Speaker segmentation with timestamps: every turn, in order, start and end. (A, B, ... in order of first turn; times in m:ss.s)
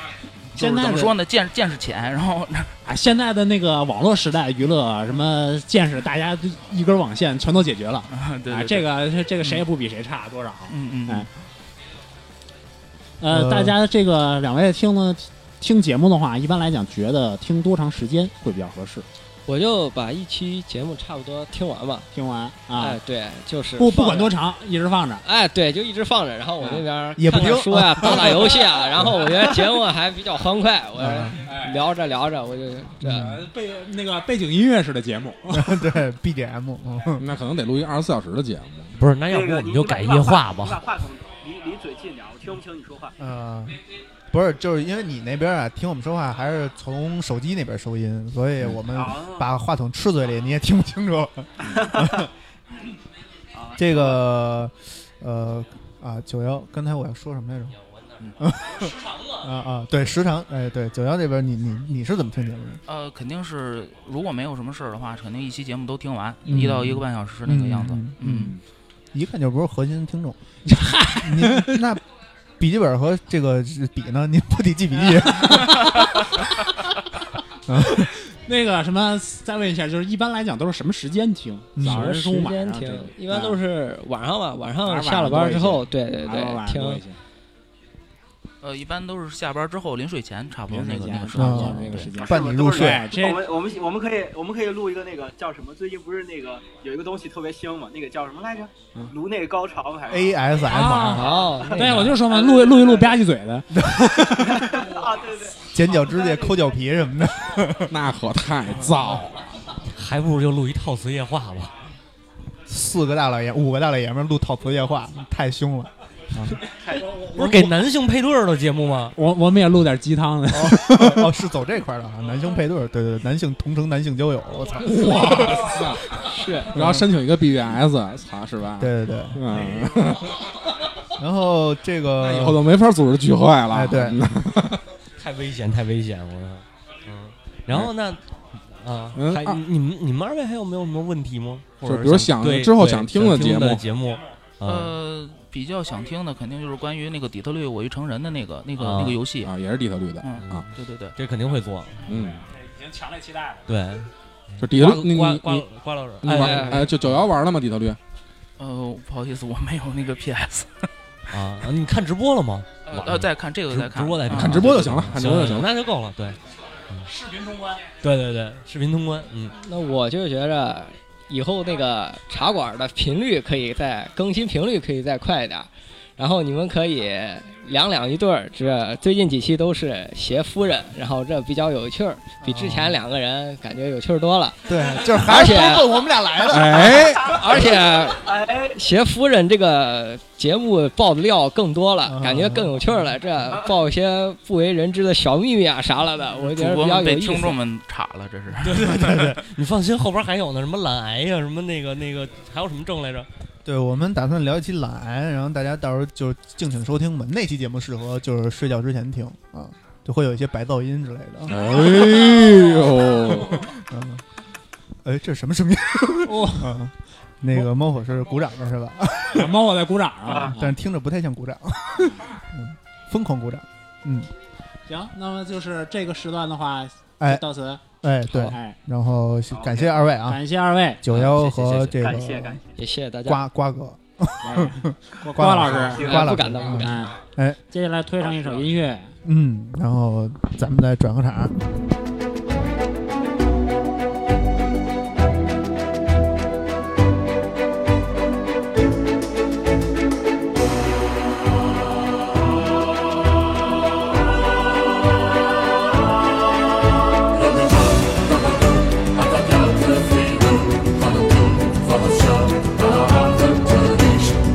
0:00.6-0:01.2 A
0:00.6-0:02.7 B
0:02.8-0:11.3 A
0:08.1-0:08.9 B
0:10.7-0:11.3 B
0:13.2-0:19.1 A
0:13.3-0:13.8 C
0:19.5-0:22.1 D
0:22.1-0:23.0 A
0:22.8-0:24.3 D
0:23.8-0:25.2 A
0:25.2-0:33.4 D
0:27.2-0:28.5 C
0:31.0-0:31.5 C
0:31.4-0:31.8 A
0:33.0-0:35.8 A
0:33.0-0:33.4 C
0:35.5-0:37.2 C
0:37.2-0:39.0 E
0:39.0-0:40.8 F
0:39.3-0:43.2 G
0:43.2-0:43.8 C
0:44.3-0:52.3 C
0:48.9-0:49.5 G
0:51.6-0:52.2 G
0:53.5-0:54.2 G
0:53.8-0:57.8 C
0:58.4-1:02.8 C
1:02.9-1:08.5 B
1:06.4-1:08.6 C
1:08.2-1:08.6 A
1:09.1-1:10.4 C
1:10.6-1:11.8 A
1:11.2-1:12.0 C
1:12.6-1:16.3 C
1:17.7-1:18.1 C
1:18.3-1:23.6 A
1:21.8-1:22.1 C
1:21.8-1:27.0 D
1:24.8-1:27.2 A
1:28.6-1:32.1 B
1:30.7-1:33.5 A
1:31.4-1:33.1 C
1:32.1-1:40.4 G
1:40.1-1:41.5 C
1:40.7-1:44.5 A
1:41.1-1:42.1 D
1:42.0-1:43.2 G
1:44.4-1:46.6 G
1:45.7-1:47.9 C
1:47.9-1:49.4 E
1:50.0-1:51.7 F
1:52.7-1:56.6 C
1:56.8-1:57.1 G
1:57.0-1:57.7 A
1:57.3-1:59.2 F
1:59.2-2:01.3 A
2:00.5-2:05.7 C
2:04.8-2:06.0 E
2:06.3-2:06.7 D
2:06.7-2:10.3 E
2:06.8-2:07.1 C
2:08.8-2:09.4 C
2:11.2-2:12.6 C
2:12.2-2:14.8 E
2:13.7-2:14.2 C
2:15.2-2:18.2 F
2:18.7-2:24.9 F
2:19.2-2:19.6 E
2:21.8-2:23.8 E
2:24.6-2:29.5 B
2:28.8-2:29.2 F
2:29.3-2:30.7 E
2:30.2-2:31.2 B
2:30.4-2:32.0 F
2:32.0-2:32.4 E
2:32.1-2:33.7 A
2:33.7-2:34.1 F
2:34.6-2:35.7 E
2:34.6-2:37.0 F
2:36.2-2:38.0 E
2:36.3-2:36.8 D
2:38.6-2:40.7 B
2:41.3-2:46.4 F
2:42.8-2:44.7 B
2:44.3-2:45.7 E
2:47.1-2:47.8 A
2:48.0-2:49.6 F
2:49.6-3:04.6 D
3:02.4-3:03.0 C
3:04.7-3:07.2 C
3:05.2-3:06.0 D
3:06.5-3:07.4 E
3:07.3-3:17.5 D
3:08.2-3:08.8 G
3:12.1-3:13.1 C
3:16.4-3:18.8 B
3:18.6-3:23.3 F
3:18.8-3:19.4 C
3:23.6-3:31.6 C
3:31.5-3:33.6 E
3:33.6-3:34.2 C
3:35.0-3:39.5 C
3:36.2-3:36.7 A
3:39.3-3:40.7 A
3:40.3-3:40.5 G
3:40.5-3:44.3 C
3:44.9-3:47.8 A
3:48.0-3:50.4 C
3:48.4-3:48.8 A
3:49.5-3:49.9 G
3:50.2-3:51.0 A
3:51.0-3:52.6 C
3:51.9-3:52.6 G
3:52.8-3:53.4 D
3:53.3-3:57.6 C
3:54.4-3:57.2 A
3:55.9-3:56.4 G
3:56.0-3:57.0 D
3:57.7-3:59.2 A
3:58.2-3:58.7 G
3:59.2-4:01.6 C